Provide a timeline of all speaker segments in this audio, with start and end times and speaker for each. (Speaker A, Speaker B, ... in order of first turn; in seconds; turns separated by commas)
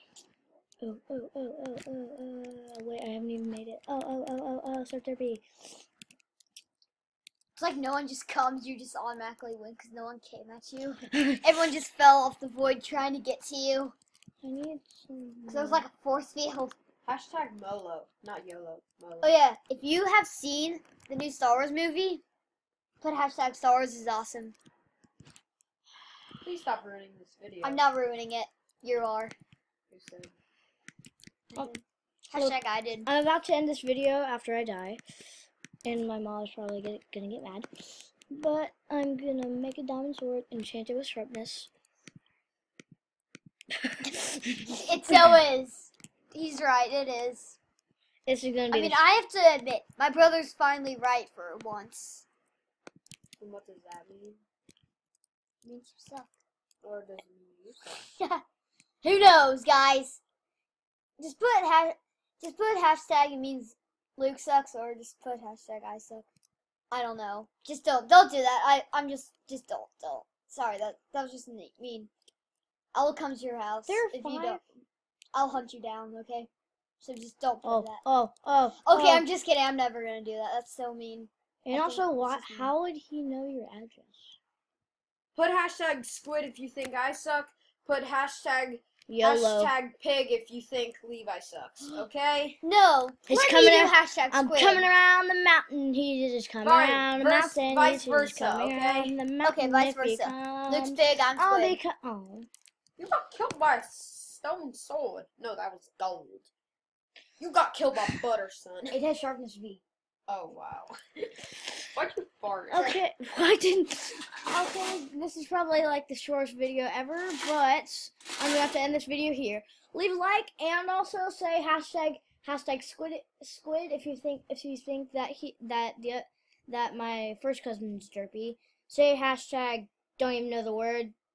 Speaker A: 0.8-5.4, Speaker B: 7.5-13.9, Speaker A: 11.1-11.4, Speaker A: 14.4-15.8, Speaker B: 15.5-16.8, Speaker C: 17.0-19.4, Speaker B: 19.2-22.2, Speaker B: 23.0-24.5, Speaker C: 26.4-27.8, Speaker B: 27.6-29.3, Speaker C: 29.9-30.3, Speaker B: 31.5-33.1, Speaker A: 32.3-35.0, Speaker A: 35.8-41.7, Speaker A: 43.8-44.6, Speaker B: 44.7-47.6, Speaker A: 48.2-49.0, Speaker B: 48.7-52.2, Speaker C: 53.4-54.4, Speaker B: 55.6-56.3, Speaker C: 56.8-57.9, Speaker B: 58.1-58.4, Speaker B: 59.0-60.2, Speaker B: 61.2-66.3, Speaker B: 66.9-72.1, Speaker B: 72.9-74.6, Speaker A: 73.9-74.6, Speaker B: 75.3-76.5, Speaker B: 77.0-78.0, Speaker A: 77.6-79.2, Speaker B: 78.8-82.7, Speaker A: 81.7-84.4, Speaker C: 85.3-92.6, Speaker A: 89.1-89.7, Speaker B: 92.6-94.9, Speaker A: 93.3-102.5, Speaker C: 96.6-99.2, Speaker B: 99.4-101.8, Speaker C: 103.0-106.5, Speaker C: 107.4-109.0, Speaker A: 108.9-109.8, Speaker C: 110.3-110.9, Speaker C: 111.9-113.0, Speaker A: 112.7-131.1